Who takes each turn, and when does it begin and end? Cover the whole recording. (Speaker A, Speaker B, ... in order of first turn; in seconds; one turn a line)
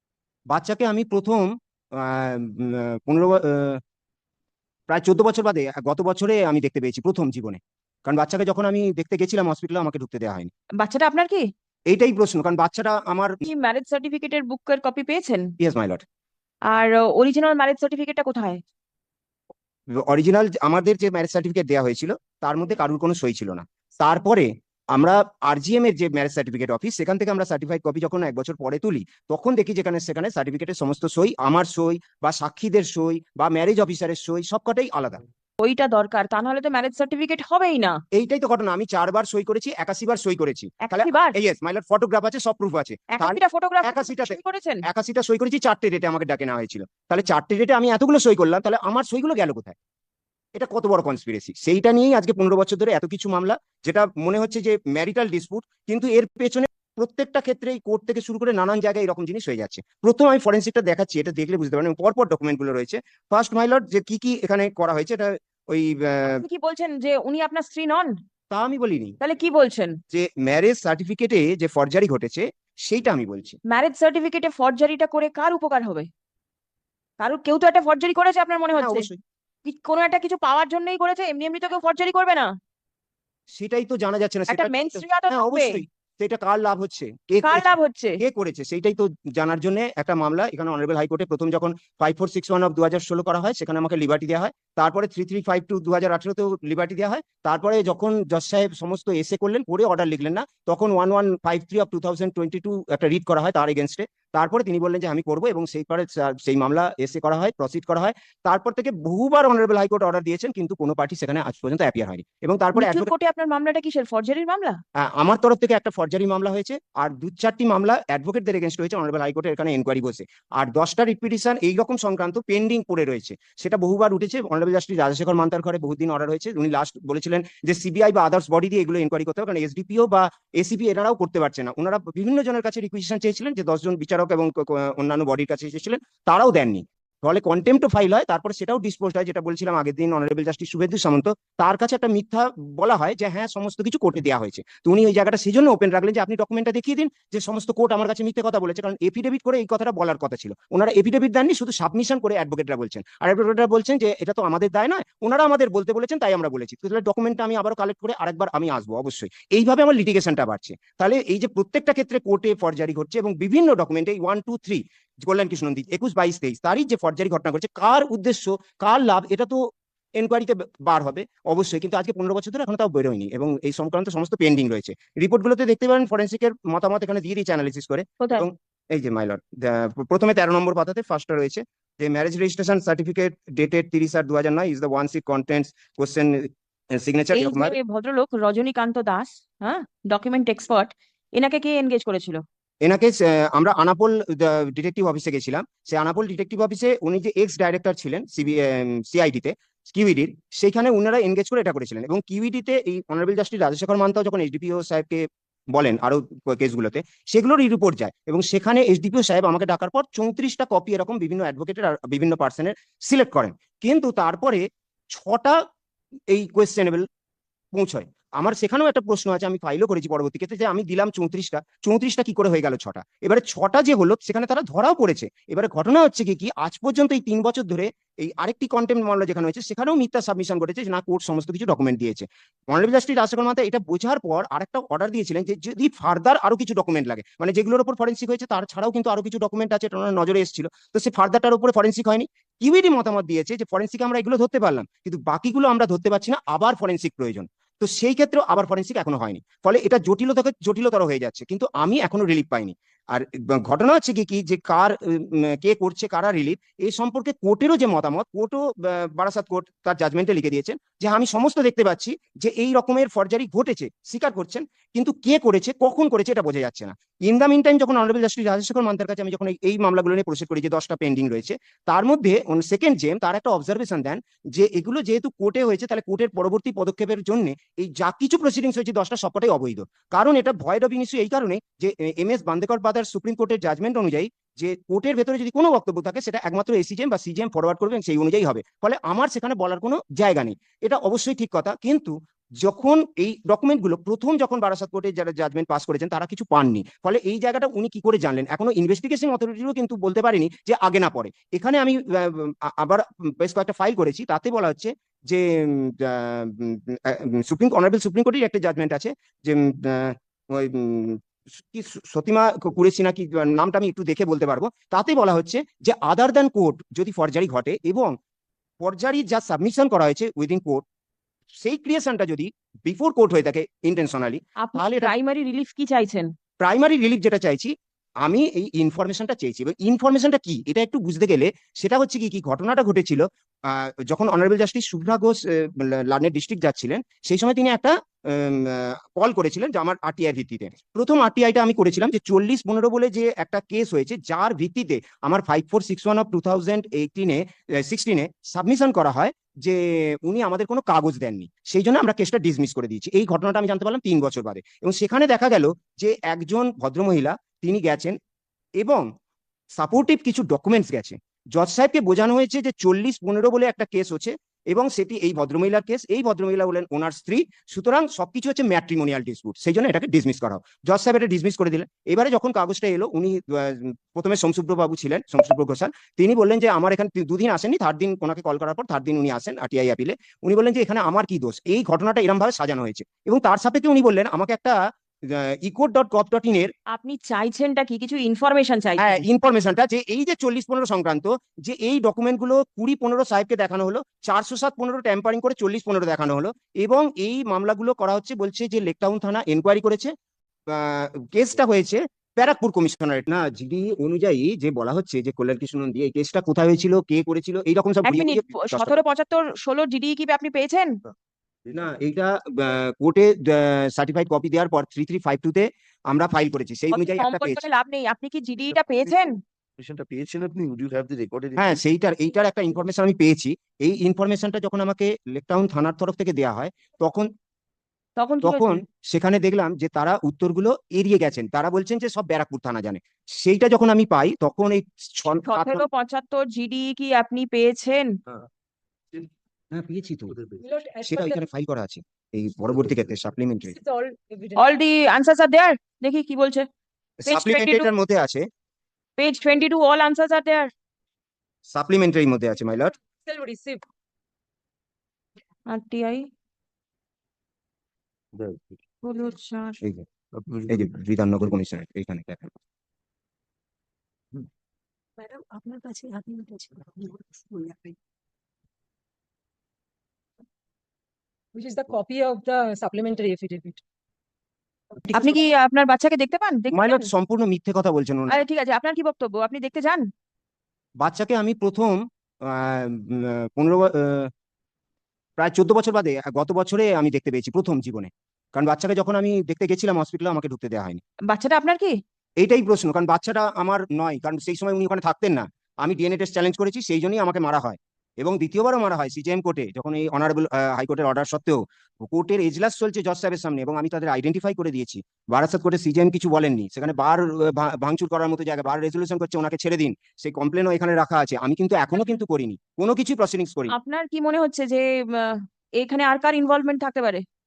Speaker A: 0.5-3.8
Speaker A: 4.9-10.5
Speaker B: 10.8-11.4
Speaker A: 11.9-13.4
Speaker B: 13.4-15.5
Speaker A: 15.6-16.0
Speaker B: 16.7-18.6
Speaker A: 20.0-35.2
Speaker B: 35.6-38.0
Speaker A: 38.1-49.8
Speaker B: 40.8-41.4
Speaker B: 43.1-44.8
Speaker A: 50.6-66.5
Speaker B: 66.3-68.2
Speaker A: 68.5-69.2
Speaker B: 69.2-70.0
Speaker A: 70.1-73.6
Speaker B: 73.7-76.1
Speaker B: 77.2-79.1
Speaker A: 78.7-79.2
Speaker B: 79.7-82.5
Speaker A: 83.6-113.1
Speaker B: 84.5-85.8
Speaker B: 87.4-88.2
Speaker B: 112.8-114.8
Speaker A: 115.0-169.6
Speaker A: 170.2-187.8
Speaker B: 178.2-178.5
Speaker B: 187.3-192.4
Speaker A: 192.8-215.6
Speaker A: 216.3-217.1
Speaker A: 217.7-318.1
Speaker A: 318.8-320.8
Speaker A: 321.6-325.1
Speaker B: 324.6-326.3
Speaker A: 326.6-327.7
Speaker A: 328.2-358.2
Speaker A: 358.8-359.1
Speaker A: 359.8-384.8
Speaker A: 385.3-386.7
Speaker B: 386.9-389.2
Speaker A: 389.0-400.1
Speaker A: 400.7-408.9
Speaker B: 408.1-411.0
Speaker A: 411.7-417.6
Speaker B: 416.9-419.4
Speaker C: 418.7-421.8
Speaker A: 421.6-427.3
Speaker B: 428.2-428.8
Speaker A: 428.4-435.9
Speaker B: 435.5-438.2
Speaker A: 439.7-440.4
Speaker D: 440.6-441.4
Speaker A: 441.0-443.8
Speaker D: 443.6-444.8
Speaker B: 444.6-446.7
Speaker A: 447.2-448.4
Speaker B: 447.3-447.9
Speaker B: 449.2-450.7
Speaker A: 451.7-452.9
Speaker D: 453.3-453.8
Speaker B: 455.7-456.3
Speaker C: 458.4-458.8
Speaker B: 459.0-459.8
Speaker C: 460.3-460.9
Speaker A: 460.7-462.5
Speaker D: 465.2-468.0
Speaker D: 471.6-473.8
Speaker B: 475.1-477.1
Speaker A: 476.7-478.4
Speaker B: 478.3-480.1
Speaker A: 481.0-484.3
Speaker A: 485.4-491.0
Speaker B: 491.3-491.9
Speaker A: 492.4-513.7
Speaker B: 513.7-517.2